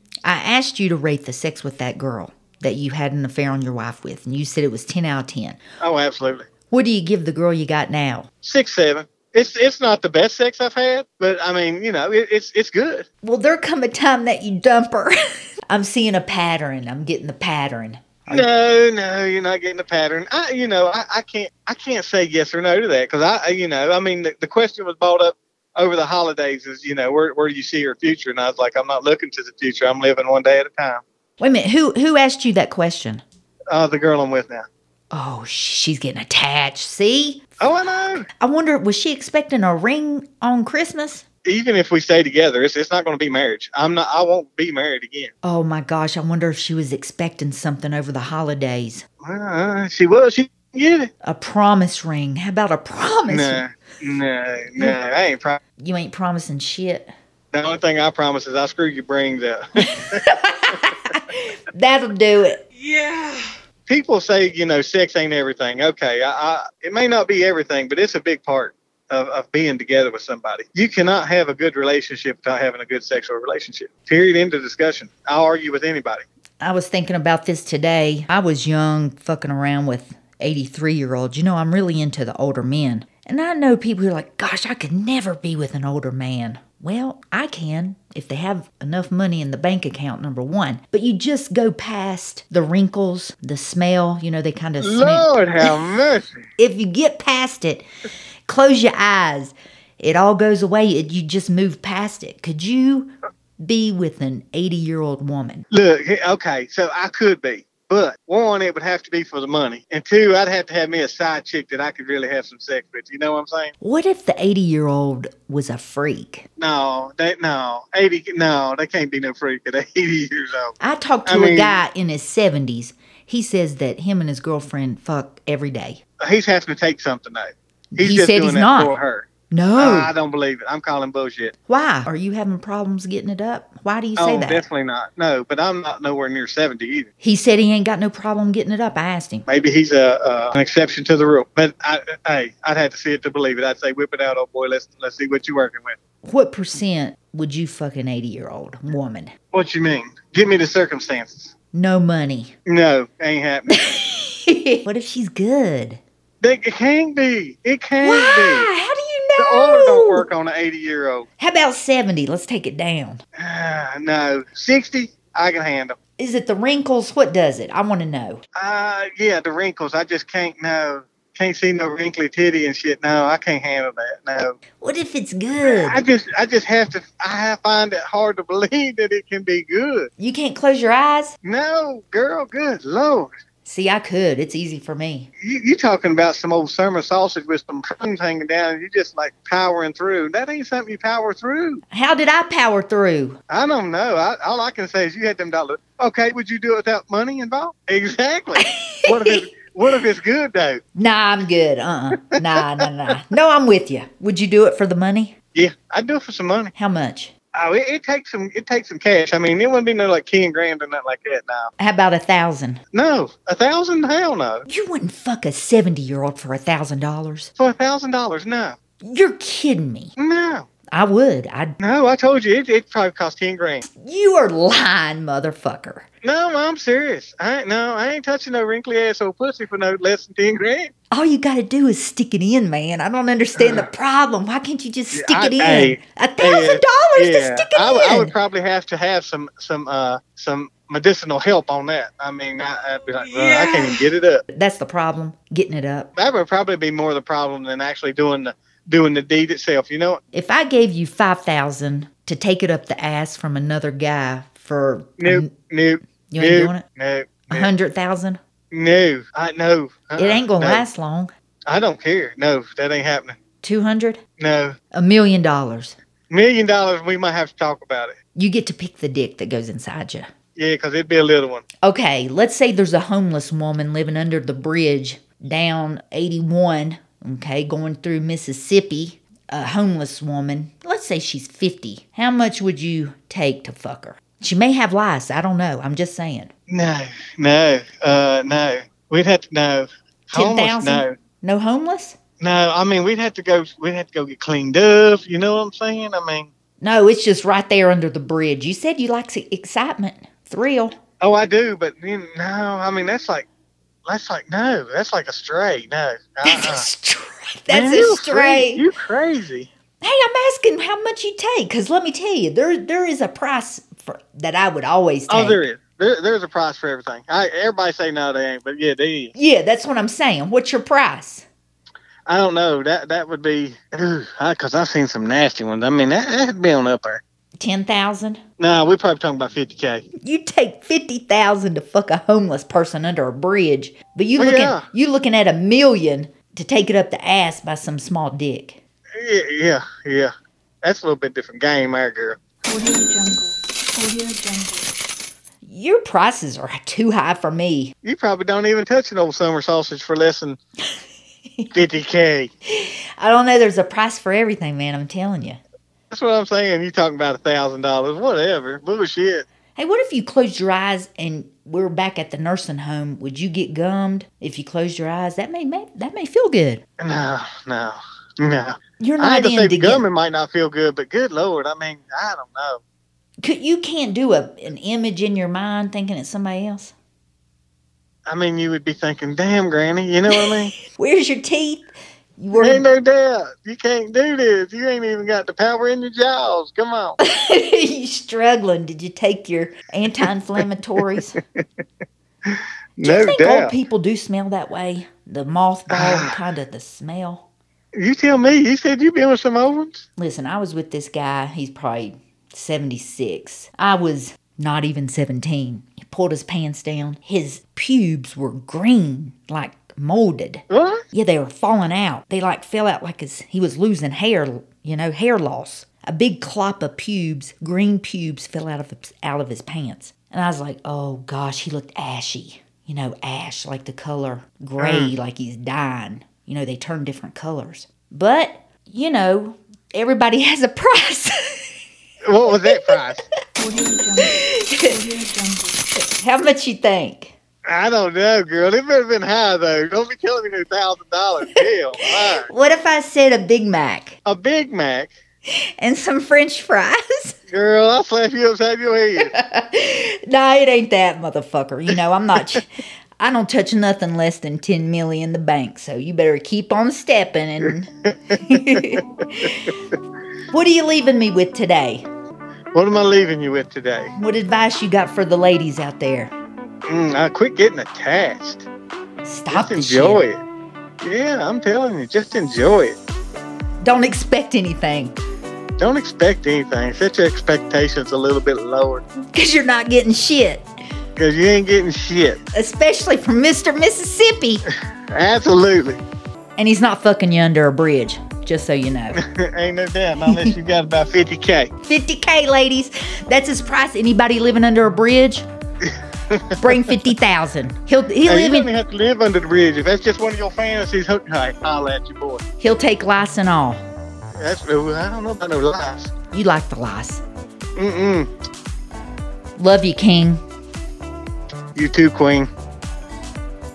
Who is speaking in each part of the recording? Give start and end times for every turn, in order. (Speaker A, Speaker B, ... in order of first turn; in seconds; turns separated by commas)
Speaker A: 0.2-5.6, Speaker B: 5.8-6.5, Speaker A: 6.7-8.3, Speaker B: 8.4-13.1, Speaker A: 13.2-15.2, Speaker A: 15.7-18.4, Speaker B: 18.3-31.0, Speaker A: 31.4-33.2, Speaker B: 33.7-34.6, Speaker A: 35.1-37.5, Speaker B: 37.6-38.3, Speaker A: 38.4-41.2, Speaker B: 41.5-45.3, Speaker A: 45.4-49.0, Speaker B: 49.2-51.1, Speaker A: 51.2-53.6, Speaker B: 53.3-55.6, Speaker A: 55.8-57.1, Speaker B: 57.5-60.2, Speaker A: 59.9-62.6, Speaker C: 62.7-63.5, Speaker B: 63.9-76.2, Speaker A: 76.6-95.7, Speaker B: 94.8-96.4, Speaker A: 96.6-97.8, Speaker A: 98.5-105.6, Speaker B: 105.7-113.7, Speaker A: 113.8-116.5, Speaker B: 116.6-121.8, Speaker A: 120.8-126.0, Speaker B: 126.2-131.5, Speaker A: 127.9-128.9, Speaker A: 129.5-130.1, Speaker A: 131.7-134.6, Speaker B: 134.2-137.1, Speaker A: 137.2-139.4, Speaker B: 139.5-146.0, Speaker A: 146.2-149.3, Speaker B: 149.5-151.5, Speaker A: 151.7-152.5, Speaker B: 152.7-153.8, Speaker A: 153.9-156.0, Speaker B: 156.4-158.7, Speaker A: 158.0-160.2, Speaker B: 159.4-161.3, Speaker A: 161.4-163.2, Speaker B: 163.4-166.0, Speaker A: 166.2-168.4, Speaker B: 168.6-174.6, Speaker A: 174.8-176.0, Speaker B: 175.7-180.1, Speaker A: 180.2-181.3, Speaker B: 181.4-183.3, Speaker A: 183.6-185.3, Speaker B: 185.4-191.8, Speaker A: 191.9-193.4, Speaker B: 193.5-200.8, Speaker A: 198.6-199.4, Speaker A: 200.9-205.3, Speaker B: 205.5-206.7, Speaker A: 206.7-207.3, Speaker B: 207.5-211.7, Speaker A: 211.8-212.8, Speaker B: 212.9-214.6, Speaker A: 214.7-217.5, Speaker B: 217.6-218.8, Speaker A: 219.0-220.1, Speaker B: 220.2-220.7, Speaker A: 220.9-221.8, Speaker B: 221.8-223.8, Speaker A: 223.8-226.1, Speaker B: 226.2-230.9, Speaker A: 231.1-238.3, Speaker B: 233.6-233.8, Speaker B: 235.1-244.4, Speaker C: 243.1-244.1, Speaker A: 244.5-246.1, Speaker B: 246.2-250.2, Speaker A: 250.3-255.5, Speaker B: 255.2-257.7, Speaker A: 256.1-256.8, Speaker A: 257.5-258.4, Speaker B: 258.7-260.8, Speaker A: 260.2-261.3, Speaker B: 261.7-263.4, Speaker A: 263.6-264.2, Speaker B: 264.4-264.8, Speaker A: 264.9-265.9, Speaker B: 266.3-268.1, Speaker A: 268.3-270.3, Speaker B: 270.6-271.6, Speaker A: 271.8-286.5, Speaker B: 286.7-291.1, Speaker A: 290.3-292.2, Speaker B: 292.4-296.5, Speaker A: 296.8-301.0, Speaker B: 301.2-303.5, Speaker B: 304.1-306.9, Speaker A: 306.4-308.8, Speaker B: 307.7-309.7, Speaker A: 310.0-315.6, Speaker B: 315.3-319.3, Speaker A: 319.3-321.4, Speaker B: 322.3-327.2, Speaker A: 327.6-328.4, Speaker B: 328.6-330.1, Speaker A: 330.2-338.8, Speaker B: 334.4-334.8, Speaker B: 339.2-340.3, Speaker B: 340.8-342.4, Speaker C: 342.6-344.9, Speaker A: 345.6-347.9, Speaker B: 348.0-350.6, Speaker B: 351.7-352.5, Speaker A: 352.7-355.6, Speaker B: 356.1-359.5, Speaker A: 359.7-366.8, Speaker B: 367.0-372.8, Speaker A: 369.0-370.0, Speaker A: 373.4-376.9, Speaker B: 378.3-380.7, Speaker A: 380.3-382.9, Speaker B: 382.6-387.2, Speaker A: 387.2-391.4, Speaker B: 392.5-393.7, Speaker A: 393.0-397.4, Speaker B: 395.9-396.4, Speaker B: 398.0-400.0, Speaker A: 400.2-431.6, Speaker B: 410.7-411.0, Speaker B: 424.8-425.1, Speaker B: 432.2-433.2, Speaker A: 432.6-433.0, Speaker C: 433.6-435.8, Speaker A: 434.2-434.8, Speaker A: 436.0-437.3, Speaker B: 437.6-442.5, Speaker A: 442.4-444.2, Speaker B: 444.2-445.1, Speaker A: 445.8-447.4, Speaker B: 447.5-449.3, Speaker A: 449.2-452.7, Speaker A: 453.2-459.5, Speaker B: 457.6-459.7, Speaker A: 460.5-462.1, Speaker B: 462.7-464.1, Speaker A: 464.1-466.3, Speaker B: 466.9-468.6, Speaker A: 469.2-470.2, Speaker B: 469.5-470.4, Speaker B: 471.0-473.0, Speaker A: 473.8-475.2, Speaker B: 475.8-479.0, Speaker A: 479.3-480.6, Speaker B: 481.1-482.4, Speaker A: 482.5-484.6, Speaker B: 485.1-486.0, Speaker A: 486.6-489.2, Speaker B: 489.1-491.7, Speaker A: 491.8-495.4, Speaker B: 495.9-496.8, Speaker A: 496.6-498.7, Speaker B: 498.3-502.4, Speaker A: 502.6-503.8, Speaker B: 504.4-506.1, Speaker A: 506.3-507.2, Speaker B: 507.8-508.3, Speaker A: 509.6-510.4, Speaker B: 511.7-512.5